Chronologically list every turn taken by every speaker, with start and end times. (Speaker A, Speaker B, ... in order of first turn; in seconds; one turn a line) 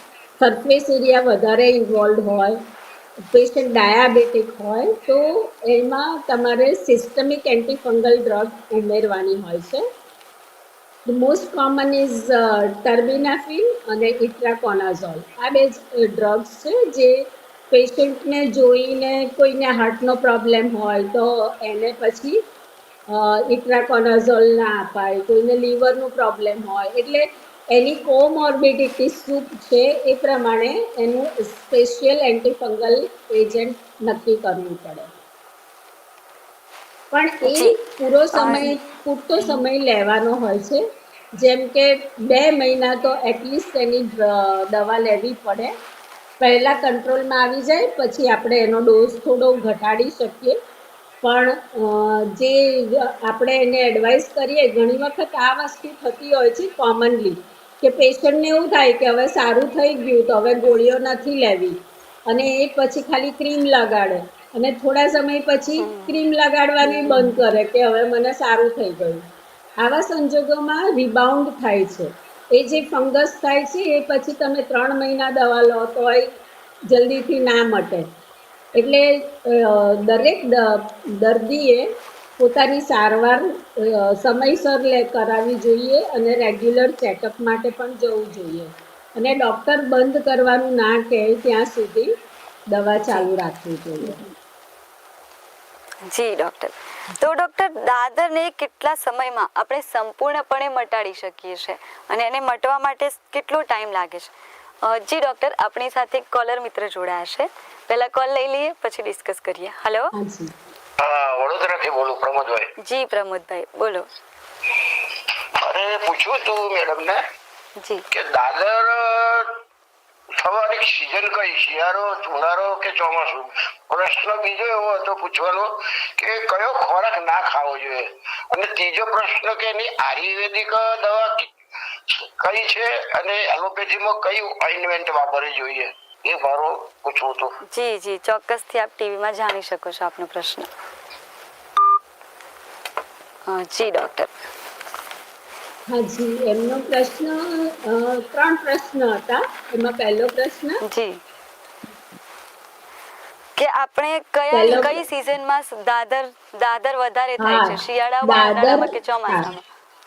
Speaker A: 0.4-2.6
Speaker A: 3.3-9.8
Speaker A: 11.1-22.4
Speaker A: 23.1-35.1
Speaker A: 37.1-40.8
Speaker B: 37.4-37.8
Speaker B: 38.3-38.8
Speaker A: 41.4-45.7
Speaker A: 46.4-50.6
Speaker A: 51.2-61.8
Speaker A: 62.3-69.2
Speaker B: 65.8-66.2
Speaker A: 69.8-76.3
Speaker A: 76.9-78.1
Speaker A: 78.7-81.9
Speaker A: 82.4-92.1
Speaker A: 92.7-94.2
Speaker B: 96.1-104.3
Speaker B: 104.8-110.1
Speaker A: 110.1-110.5
Speaker C: 111.0-112.7
Speaker B: 112.8-114.1
Speaker C: 115.6-117.2
Speaker B: 117.8-118.0
Speaker C: 118.1-119.6
Speaker C: 120.4-131.5
Speaker C: 132.1-137.6
Speaker B: 137.7-140.7
Speaker B: 143.5-144.3
Speaker A: 145.9-150.8
Speaker B: 150.8-151.2
Speaker B: 153.6-159.6
Speaker A: 154.5-155.0
Speaker A: 157.4-159.5